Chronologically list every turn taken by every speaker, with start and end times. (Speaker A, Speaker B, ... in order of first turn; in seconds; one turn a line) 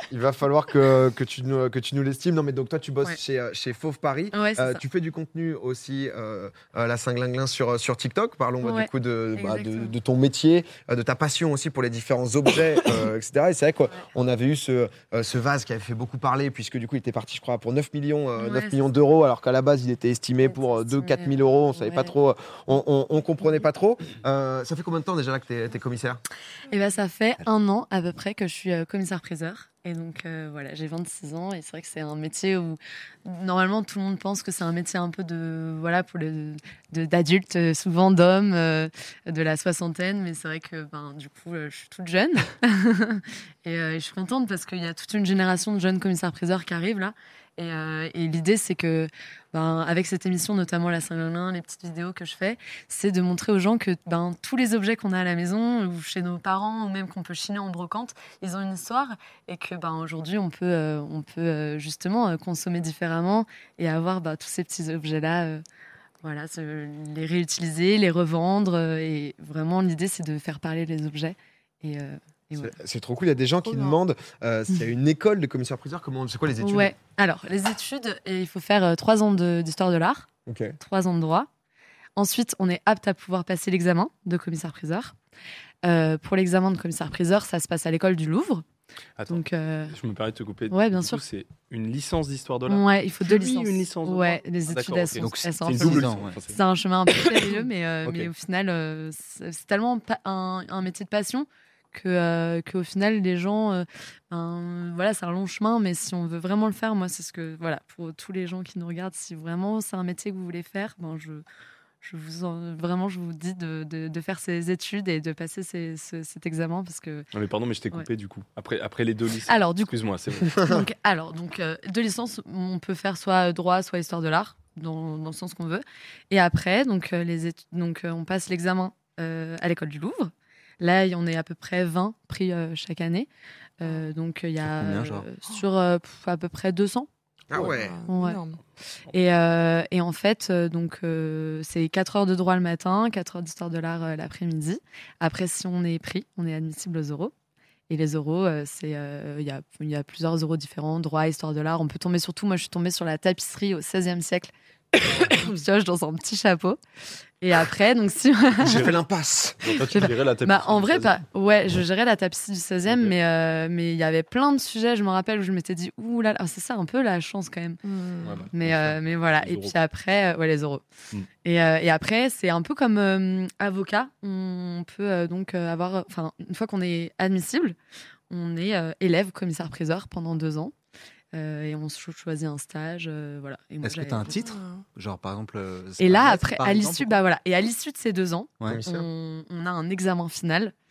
Speaker A: 0.1-26.2
Speaker B: 4.3-4.8
Speaker B: 8.6-9.9
Speaker B: 18.4-18.8
Speaker B: 20.4-22.1
Speaker B: 26.7-65.6
Speaker B: 66.2-72.8
Speaker A: 72.6-76.9
Speaker C: 73.6-74.0
Speaker B: 76.6-80.3
Speaker A: 80.5-80.8
Speaker B: 80.8-81.5
Speaker B: 82.2-85.1
Speaker B: 85.8-88.6
Speaker D: 89.2-96.6
Speaker B: 89.3-89.9
Speaker B: 90.7-91.2
Speaker B: 92.7-111.4
Speaker E: 95.2-96.4
Speaker D: 98.0-98.3
Speaker B: 112.0-117.3
Speaker D: 117.3-120.8
Speaker B: 119.5-119.9
Speaker B: 120.5-133.3
Speaker B: 133.8-137.1
Speaker E: 134.7-135.3
Speaker A: 137.5-138.0
Speaker C: 137.5-138.6
Speaker B: 138.1-138.4
Speaker B: 139.1-147.3
Speaker B: 147.9-156.8
Speaker B: 157.4-158.9
Speaker A: 158.6-159.7
Speaker D: 159.6-161.2
Speaker B: 159.6-167.8
Speaker D: 162.9-163.1
Speaker C: 167.8-168.4
Speaker D: 168.2-169.7
Speaker B: 168.5-170.8
Speaker B: 171.4-177.8
Speaker B: 178.3-180.7
Speaker B: 181.3-184.4
Speaker E: 183.8-187.1
Speaker C: 184.3-184.8
Speaker B: 186.0-190.7
Speaker A: 188.6-189.1